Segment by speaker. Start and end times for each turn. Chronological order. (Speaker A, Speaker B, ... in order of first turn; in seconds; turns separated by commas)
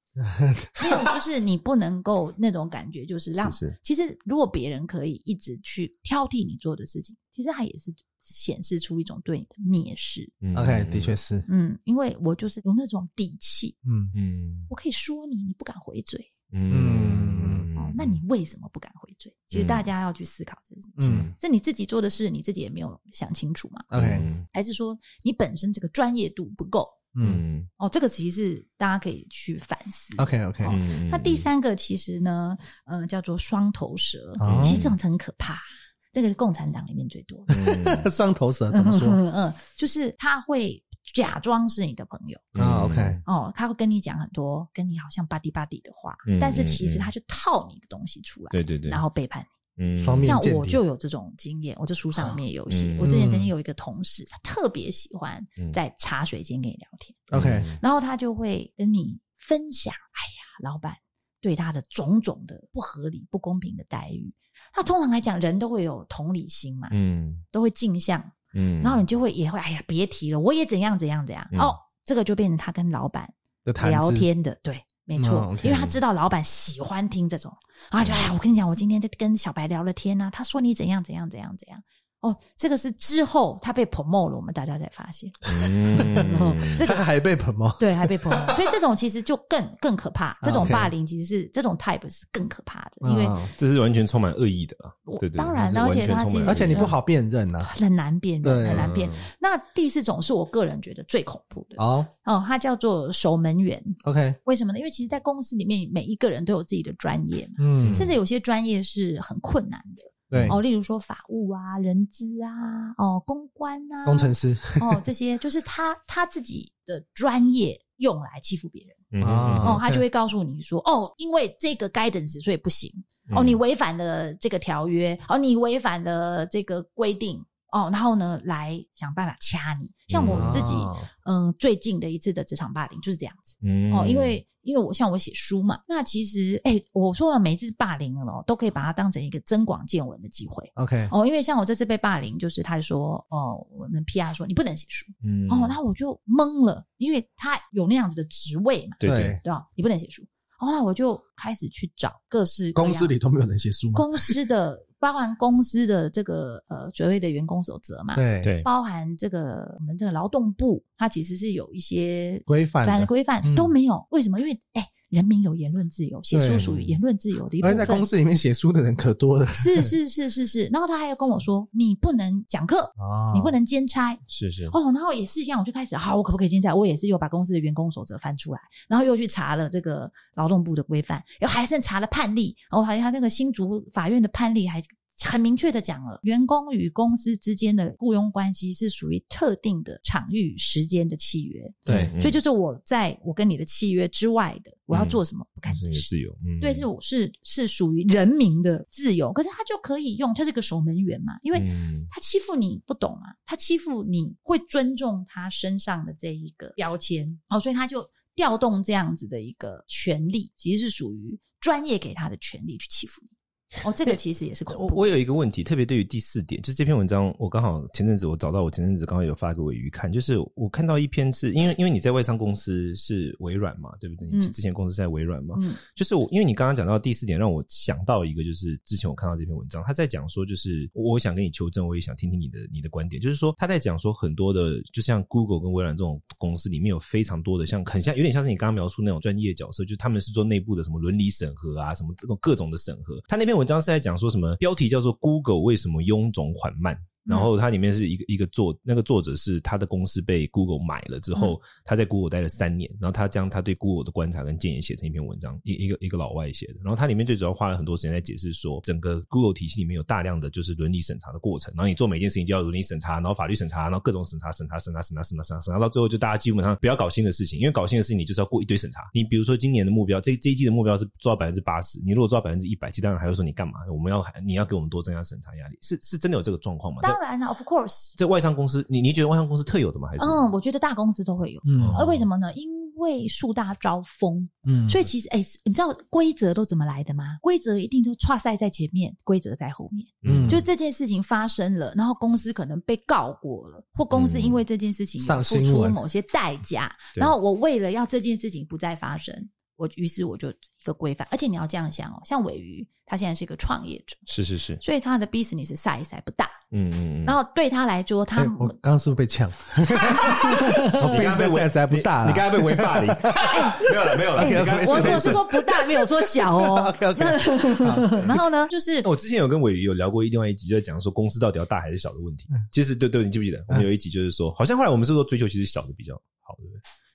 Speaker A: 0.2-0.8, Speaker B: 0.8-10.3, Speaker C: 3.4-3.8, Speaker C: 10.4-11.2, Speaker A: 10.5-11.5, Speaker B: 11.5-13.8, Speaker A: 13.8-14.1, Speaker C: 14.1-14.7, Speaker B: 14.7-16.3, Speaker C: 16.5-18.2, Speaker A: 16.7-17.7, Speaker B: 17.8-23.9, Speaker C: 19.5-19.9, Speaker A: 21.0-21.3, Speaker C: 21.0-21.3, Speaker A: 23.9-24.3, Speaker C: 23.9-24.5, Speaker B: 24.5-27.0, Speaker A: 27.1-27.4, Speaker C: 27.2-27.7, Speaker B: 27.8-37.5, Speaker A: 30.2-30.8, Speaker C: 30.7-31.5, Speaker A: 34.4-34.8, Speaker C: 34.4-35.0, Speaker C: 37.5-38.1, Speaker A: 37.5-39.2, Speaker B: 38.7-42.5, Speaker C: 42.5-43.2, Speaker A: 42.6-43.2, Speaker B: 43.2-49.5, Speaker C: 46.3-47.1, Speaker C: 48.5-49.0, Speaker C: 49.8-50.4, Speaker A: 50.0-50.8, Speaker B: 50.2-66.9, Speaker C: 52.7-53.2, Speaker A: 53.0-53.5, Speaker A: 57.3-57.7, Speaker C: 57.3-57.8, Speaker C: 66.9-67.5, Speaker B: 67.5-87.0, Speaker C: 68.5-69.0, Speaker C: 71.5-71.8, Speaker A: 73.7-74.3, Speaker A: 75.2-75.9, Speaker C: 78.0-78.3, Speaker C: 85.5-86.9, Speaker A: 85.5-88.5, Speaker B: 87.8-93.4, Speaker A: 90.4-90.9, Speaker A: 93.0-93.5, Speaker C: 93.6-97.0, Speaker B: 95.1-97.0, Speaker A: 96.4-97.7, Speaker B: 97.6-119.1, Speaker A: 98.4-98.9, Speaker C: 98.7-99.3, Speaker A: 101.8-102.1, Speaker A: 104.0-104.4, Speaker A: 107.6-108.1, Speaker C: 107.8-108.2, Speaker A: 110.3-110.6, Speaker C: 110.3-110.6, Speaker A: 114.0-115.0, Speaker C: 119.1-119.8, Speaker A: 119.2-120.0, Speaker B: 119.6-153.1, Speaker C: 123.3-123.6, Speaker C: 130.1-130.8, Speaker A: 130.2-131.1, Speaker C: 133.6-134.4, Speaker A: 140.8-141.1, Speaker C: 145.2-145.8, Speaker C: 149.0-149.4, Speaker A: 149.0-149.4, Speaker A: 152.8-154.3, Speaker B: 153.9-168.1, Speaker A: 158.1-158.5, Speaker C: 158.4-158.7, Speaker A: 162.5-163.7, Speaker A: 166.3-166.7, Speaker C: 166.6-167.0, Speaker A: 167.6-169.9, Speaker B: 169.6-196.1, Speaker A: 173.0-173.6, Speaker C: 174.3-174.8, Speaker A: 191.9-192.1, Speaker C: 191.9-192.4, Speaker C: 194.9-196.9, Speaker B: 196.6-213.3, Speaker C: 201.5-202.1, Speaker B: 213.8-215.1, Speaker C: 214.7-277.2, Speaker B: 225.5-225.8, Speaker B: 277.0-278.2, Speaker C: 278.2-280.4, Speaker B: 280.2-304.2, Speaker A: 281.6-282.0, Speaker C: 281.8-282.3, Speaker A: 284.6-285.0, Speaker C: 290.2-290.7, Speaker A: 290.2-290.6, Speaker C: 294.1-294.6, Speaker A: 295.2-296.0, Speaker C: 304.3-304.8, Speaker B: 304.8-306.6, Speaker C: 306.7-307.4, Speaker B: 307.2-308.7, Speaker A: 308.4-318.4, Speaker B: 309.9-311.2, Speaker C: 310.1-315.6, Speaker B: 313.4-319.1, Speaker C: 319.0-326.8